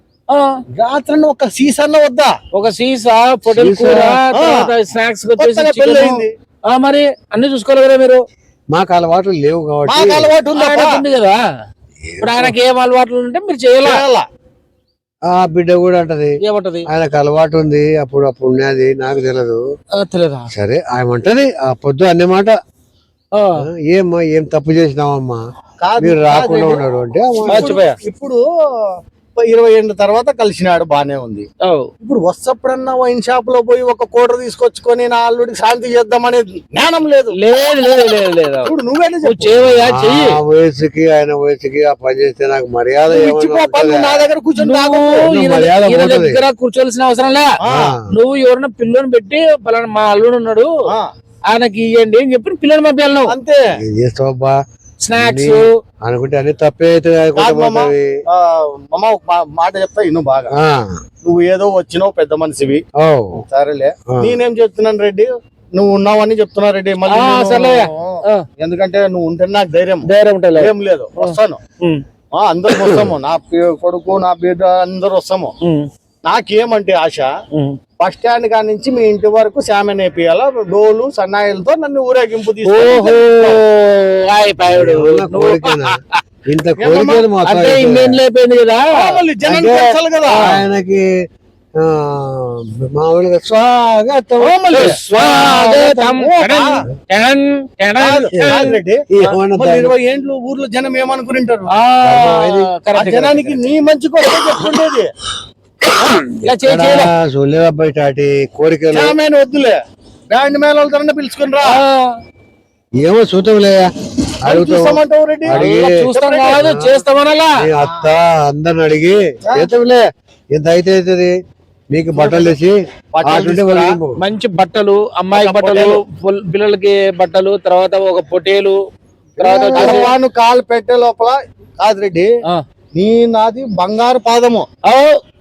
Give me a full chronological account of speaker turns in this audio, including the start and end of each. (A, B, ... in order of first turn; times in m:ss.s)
0:00.8-0:02.3 A
0:02.5-0:08.2 B
0:03.5-0:04.2 C
0:04.3-0:04.7 A
0:05.4-0:06.3 A
0:08.7-0:10.3 C
0:09.9-0:11.0 A
0:10.5-0:11.4 B
0:12.0-0:12.5 C
0:12.2-0:14.0 B
0:13.8-0:14.2 A
0:15.3-0:16.4 C
0:16.4-0:16.8 B
0:16.9-0:19.6 C
0:20.0-0:20.5 B
0:20.5-0:22.5 C
0:23.3-0:23.6 B
0:23.6-0:25.4 C
0:25.8-0:26.8 A
0:26.0-0:27.8 C
0:27.4-0:28.4 A
0:27.4-0:28.0 B
0:29.4-0:31.4 A
0:32.0-0:37.4 A
0:37.4-0:38.7 B
0:38.6-0:39.6 A
0:39.2-0:40.3 B
0:39.8-0:44.2 C
0:43.1-0:45.3 A
0:44.6-0:47.6 B
0:45.2-0:46.4 C
0:47.6-0:48.0 A
0:47.7-0:48.0 C
0:48.1-0:50.7 B
0:51.5-0:53.3 B
0:53.3-0:53.6 A
0:53.8-0:54.6 C
0:55.0-0:55.7 B
0:55.1-0:58.1 C
0:57.4-1:00.5 A
1:00.6-1:01.0 C
1:01.2-1:02.8 A
1:03.0-1:03.4 C
1:03.4-1:11.6 A
1:07.1-1:08.4 B
1:10.1-1:12.0 B
1:12.3-1:15.5 A
1:12.7-1:13.1 C
1:15.6-1:15.9 B
1:16.2-1:17.3 A
1:17.5-1:17.8 B
1:18.0-1:23.6 A
1:22.6-1:26.2 B
1:24.6-1:28.2 C
1:26.8-1:27.3 A
1:27.4-1:28.8 B
1:28.9-1:30.6 A
1:29.4-1:31.0 C
1:31.8-1:35.0 C
1:34.4-1:36.8 A
1:34.7-1:38.7 B
1:38.0-1:41.7 A
1:38.3-1:39.9 C
1:41.7-1:43.6 B
1:42.0-1:42.7 C
1:42.9-1:45.1 A
1:45.9-1:47.1 B
1:46.6-1:49.2 C
1:48.9-1:49.8 A
1:50.3-1:51.8 A
1:51.6-1:52.2 B
1:53.0-1:53.9 C
1:54.4-1:57.0 C
1:54.4-1:56.6 A
1:55.5-1:57.6 B
1:57.6-2:01.3 C
1:57.8-1:58.1 A
2:01.9-2:04.2 C
2:02.1-2:02.6 A
2:03.1-2:04.0 A
2:04.2-2:08.8 B
2:05.3-2:06.0 A
2:09.4-2:10.1 C
2:09.4-2:10.1 B
2:09.7-2:12.3 A
2:12.9-2:14.6 A
2:14.8-2:15.1 B